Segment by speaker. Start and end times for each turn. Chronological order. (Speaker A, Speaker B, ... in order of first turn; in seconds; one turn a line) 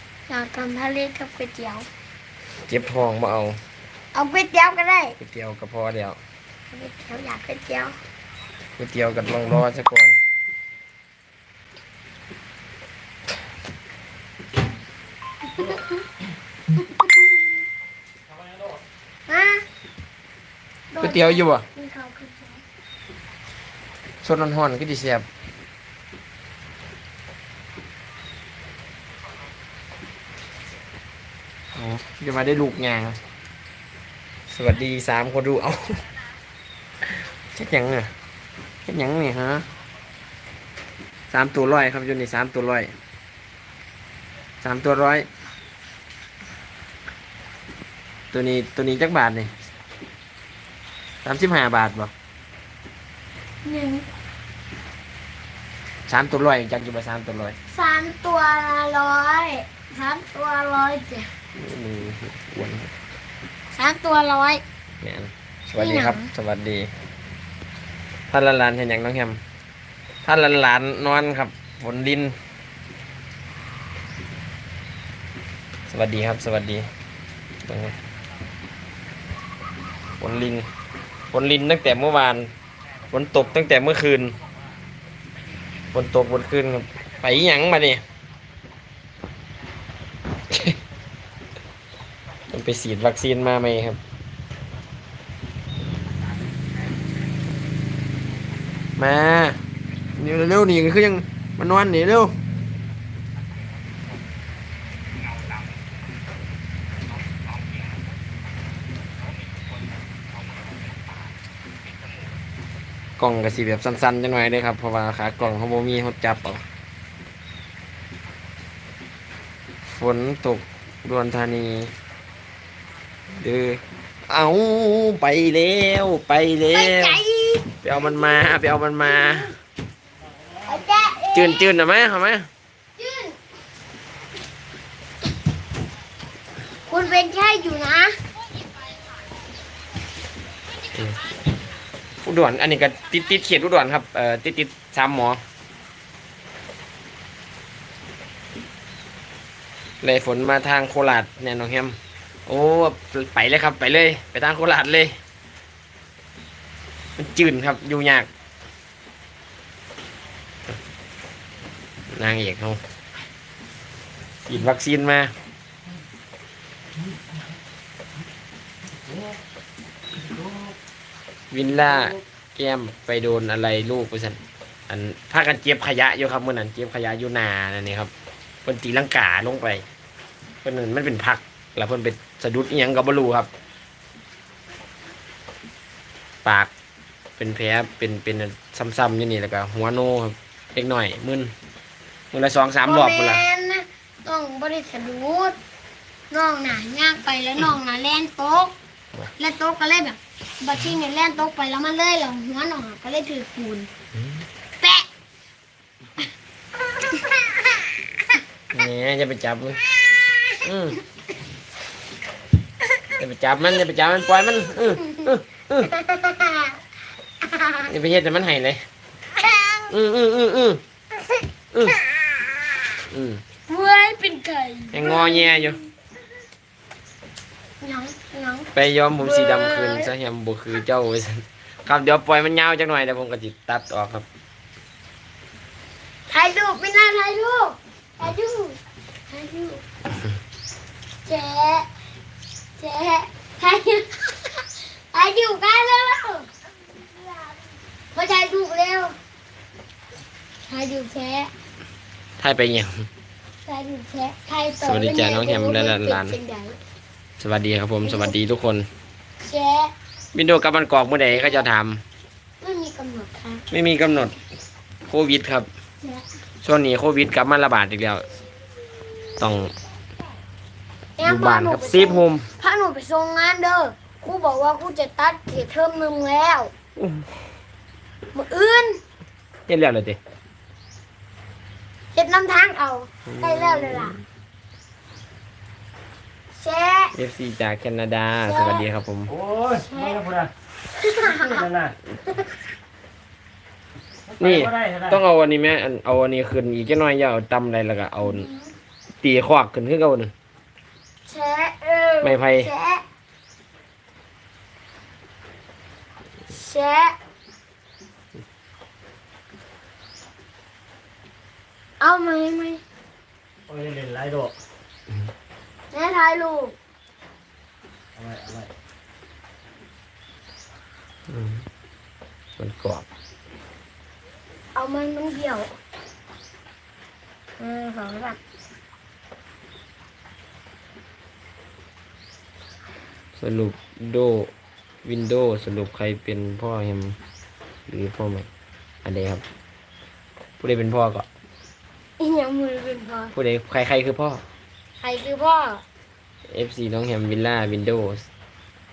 Speaker A: 0.3-1.9
Speaker B: 2.7-3.6
Speaker A: 4.1-5.2
Speaker B: 5.2-6.2
Speaker A: 6.7-8.0
Speaker B: 8.8-10.2
Speaker A: 15.5-16.0
Speaker A: 16.7-17.3
Speaker C: 18.3-18.8
Speaker A: 19.3-19.6
Speaker A: 20.9-22.6
Speaker B: 21.0-21.6
Speaker B: 24.2-25.2
Speaker B: 31.7-33.2
Speaker B: 34.5-36.0
Speaker B: 37.5-38.1
Speaker B: 38.9-39.6
Speaker B: 41.3-42.9
Speaker B: 44.6-45.2
Speaker B: 48.3-49.5
Speaker B: 51.2-52.1
Speaker A: 53.6-54.0
Speaker B: 56.1-57.5
Speaker A: 57.7-61.3
Speaker B: 61.6-62.9
Speaker A: 63.7-64.6
Speaker B: 65.0-66.9
Speaker A: 65.8-66.3
Speaker B: 68.3-69.4
Speaker B: 70.2-72.3
Speaker B: 75.9-76.9
Speaker B: 77.7-77.9
Speaker B: 80.2-80.7
Speaker B: 81.3-82.5
Speaker B: 83.1-84.3
Speaker B: 85.9-88.0
Speaker B: 90.5-90.8
Speaker B: 92.5-94.0
Speaker B: 99.0-99.6
Speaker B: 100.2-102.3
Speaker B: 113.2-116.6
Speaker B: 120.0-121.9
Speaker B: 123.3-127.2
Speaker A: 126.7-127.8
Speaker B: 127.8-129.5
Speaker C: 130.3-130.8
Speaker A: 130.6-131.6
Speaker B: 131.3-132.5
Speaker A: 133.0-133.4
Speaker A: 136.9-138.2
Speaker B: 142.2-145.4
Speaker B: 150.0-155.1
Speaker B: 157.2-158.3
Speaker B: 162.1-162.8
Speaker B: 164.4-165.3
Speaker C: 169.1-169.4
Speaker C: 170.2-170.7
Speaker B: 171.5-178.1
Speaker C: 171.8-172.2
Speaker B: 178.6-179.8
Speaker B: 180.6-183.5
Speaker B: 186.4-186.7
Speaker B: 187.4-191.5
Speaker B: 192.3-193.4
Speaker A: 192.8-195.6
Speaker A: 196.3-198.7
Speaker A: 199.4-203.9
Speaker A: 204.8-205.1
Speaker A: 207.1-207.7
Speaker B: 208.7-209.8
Speaker B: 210.6-211.0
Speaker B: 213.2-215.9
Speaker A: 215.9-216.7
Speaker A: 217.6-217.8
Speaker B: 217.9-218.8
Speaker A: 219.3-219.9
Speaker B: 219.9-220.8
Speaker B: 221.7-222.0
Speaker B: 223.1-223.4
Speaker A: 223.7-225.8
Speaker B: 224.9-225.8
Speaker A: 227.8-230.1
Speaker B: 228.7-234.2
Speaker A: 236.3-238.8
Speaker A: 239.3-239.8
Speaker A: 241.2-241.9
Speaker A: 242.8-249.2
Speaker A: 250.6-251.5
Speaker B: 252.4-253.1
Speaker A: 253.6-256.8
Speaker B: 254.8-256.4
Speaker B: 257.4-258.9
Speaker A: 258.0-258.3
Speaker A: 259.4-259.9
Speaker B: 260.3-262.0
Speaker A: 261.3-261.6
Speaker A: 262.6-263.6
Speaker B: 263.7-264.3
Speaker B: 265.1-265.7
Speaker B: 266.6-268.2
Speaker B: 269.4-269.7
Speaker A: 271.2-276.7
Speaker B: 271.2-272.5
Speaker B: 276.9-277.3
Speaker A: 278.3-279.0
Speaker B: 279.7-280.2
Speaker A: 282.1-284.1
Speaker B: 283.3-284.2
Speaker A: 286.5-287.1
Speaker B: 287.1-289.3
Speaker A: 288.4-288.8
Speaker C: 289.3-290.5
Speaker A: 289.8-290.2
Speaker A: 290.9-291.6
Speaker C: 291.2-291.9
Speaker C: 294.3-295.2
Speaker B: 294.4-298.5
Speaker A: 298.2-298.7
Speaker B: 299.2-300.3
Speaker A: 301.2-303.0
Speaker B: 302.2-302.7
Speaker A: 306.5-307.1
Speaker A: 312.0-312.8
Speaker C: 313.7-314.5
Speaker A: 315.9-316.8
Speaker C: 318.1-318.7
Speaker B: 321.3-321.6
Speaker B: 322.6-323.1
Speaker A: 324.7-325.7
Speaker A: 327.6-328.4
Speaker B: 333.4-334.5
Speaker B: 335.0-337.2
Speaker B: 337.9-338.5
Speaker B: 339.0-339.4
Speaker B: 340.6-341.2
Speaker A: 342.2-343.3
Speaker B: 343.3-344.4
Speaker A: 345.0-345.8
Speaker B: 346.5-348.2